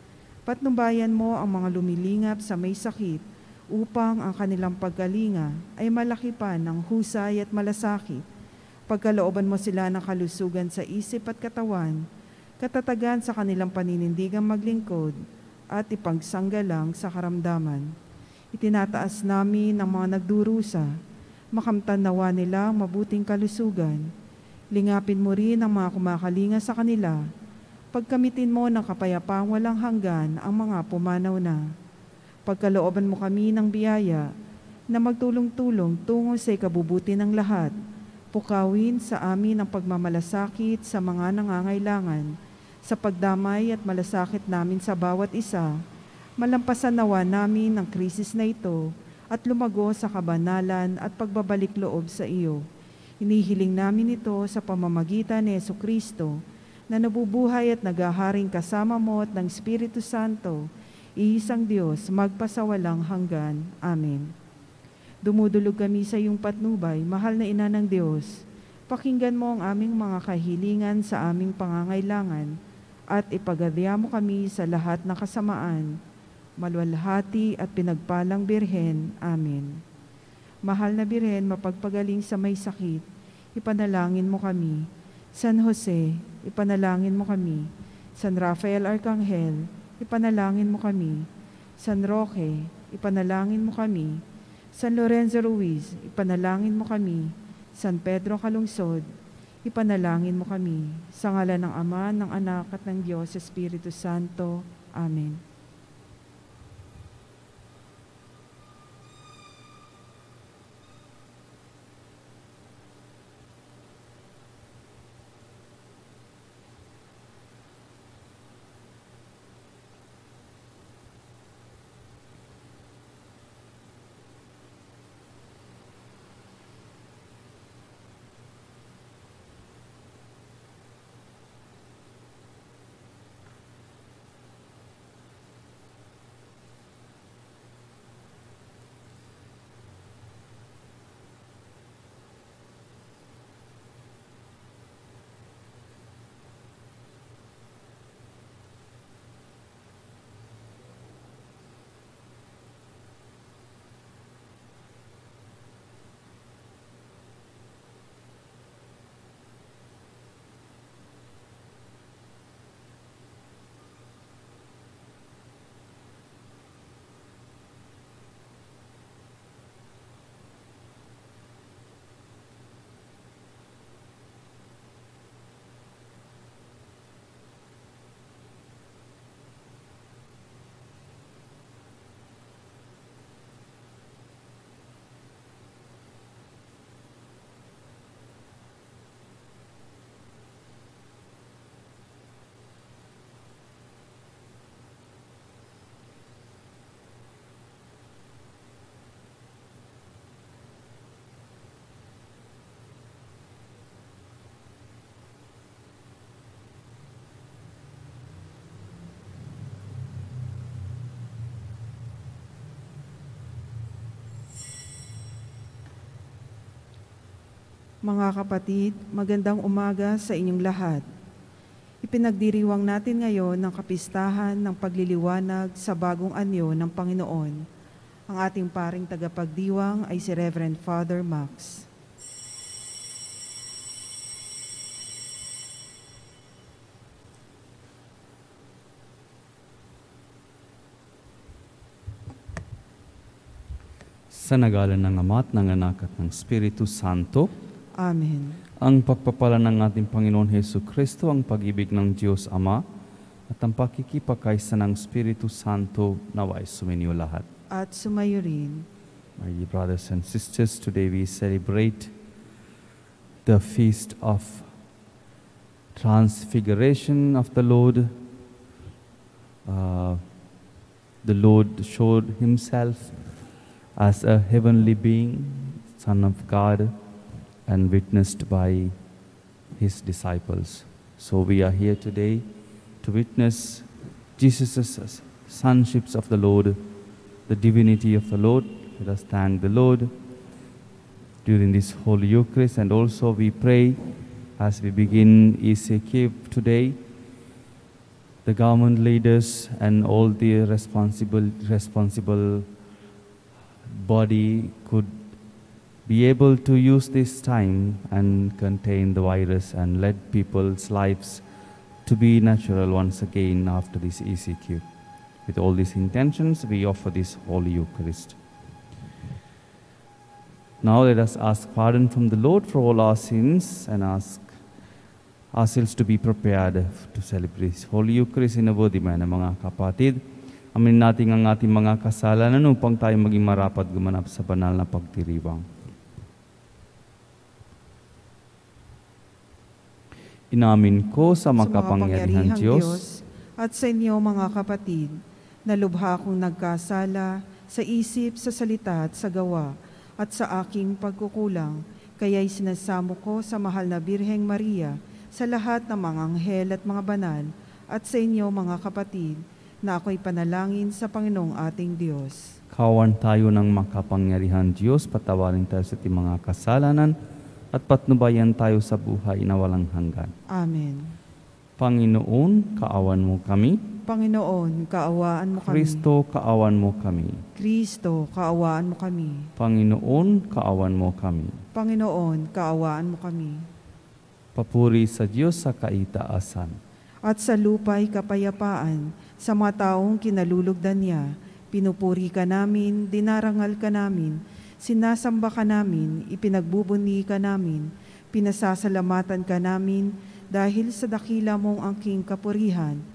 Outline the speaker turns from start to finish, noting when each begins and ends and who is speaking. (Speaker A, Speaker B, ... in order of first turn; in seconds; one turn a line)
Speaker A: 0.5-8.2
Speaker A: 8.9-12.0
Speaker A: 12.6-15.1
Speaker A: 15.7-17.9
Speaker A: 18.5-20.9
Speaker A: 21.5-24.1
Speaker A: 24.7-27.2
Speaker A: 27.9-31.6
Speaker A: 32.5-34.3
Speaker A: 34.9-37.8
Speaker A: 38.3-42.3
Speaker A: 42.9-45.7
Speaker A: 46.4-52.6
Speaker A: 53.2-60.6
Speaker A: 61.2-64.3
Speaker A: 65.2-72.5
Speaker A: 73.1-76.0
Speaker A: 76.6-79.8
Speaker A: 80.7-83.0
Speaker A: 83.6-91.3
Speaker A: 91.8-94.2
Speaker A: 94.8-99.0
Speaker A: 99.7-105.4
Speaker A: 218.0-221.0
Speaker A: 222.0-227.6
Speaker A: 228.3-231.9
Speaker B: 244.3-247.5
Speaker A: 248.0-248.6
Speaker B: 248.8-252.8
Speaker B: 253.5-257.4
Speaker A: 257.7-258.9
Speaker B: 259.4-262.1
Speaker B: 263.4-264.7
Speaker B: 265.9-268.1
Speaker B: 269.6-270.2
Speaker B: 271.2-273.1
Speaker B: 274.0-276.9
Speaker B: 277.7-278.9
Speaker B: 279.8-282.4
Speaker B: 283.0-286.8
Speaker B: 287.5-290.1
Speaker B: 291.4-294.0
Speaker B: 294.6-297.0
Speaker B: 298.4-302.7
Speaker B: 303.9-305.2
Speaker B: 306.1-311.4
Speaker B: 312.0-314.8
Speaker B: 315.4-318.4
Speaker B: 320.8-324.5
Speaker B: 325.5-330.2
Speaker B: 330.8-335.6
Speaker B: 340.5-343.0
Speaker A: 341.6-345.1
Speaker A: 345.7-362.4
Speaker B: 362.7-367.1
Speaker B: 367.7-370.3
Speaker A: 370.5-371.1
Speaker B: 371.8-373.8
Speaker A: 374.1-376.1
Speaker B: 375.6-377.4
Speaker A: 377.6-379.5
Speaker B: 379.6-381.6
Speaker A: 381.8-383.6
Speaker B: 384.5-386.8
Speaker A: 387.3-403.0